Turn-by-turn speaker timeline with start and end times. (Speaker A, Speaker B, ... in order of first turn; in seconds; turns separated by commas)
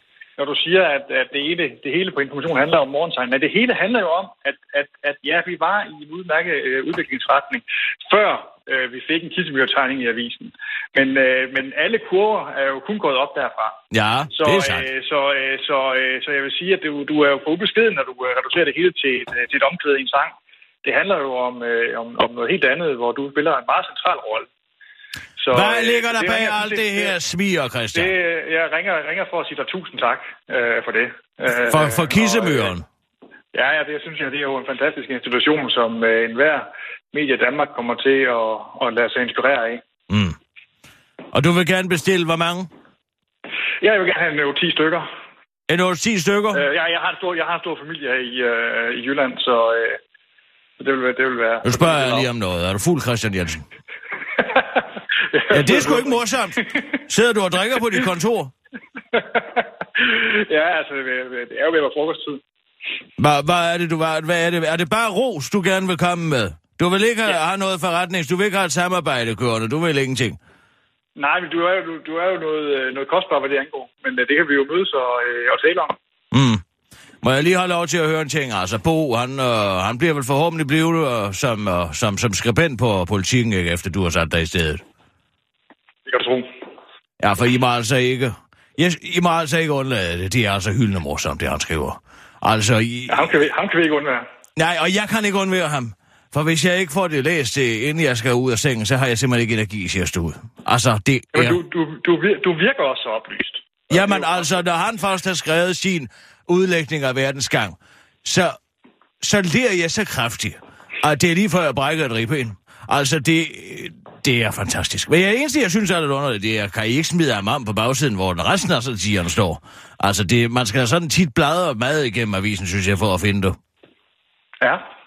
Speaker A: 0.4-13.8, Speaker B: 13.9-14.9, Speaker A: 14.3-24.5, Speaker A: 25.4-27.2, Speaker B: 25.5-28.1, Speaker A: 27.9-32.7, Speaker B: 31.5-32.9, Speaker A: 33.5-39.8, Speaker B: 40.1-40.4, Speaker B: 41.3-42.7, Speaker A: 43.8-45.1, Speaker B: 45.7-46.7, Speaker A: 46.5-50.0, Speaker A: 50.8-52.3, Speaker B: 51.6-53.6, Speaker A: 54.4-56.2, Speaker B: 55.5-58.5, Speaker A: 59.1-62.4, Speaker B: 63.2-70.4, Speaker A: 71.2-76.0, Speaker B: 76.3-76.6, Speaker B: 77.2-84.8, Speaker A: 86.1-86.5, Speaker B: 87.2-93.3, Speaker A: 93.1-94.2, Speaker B: 94.6-101.6, Speaker A: 101.3-104.5, Speaker B: 103.9-108.6, Speaker B: 109.2-123.6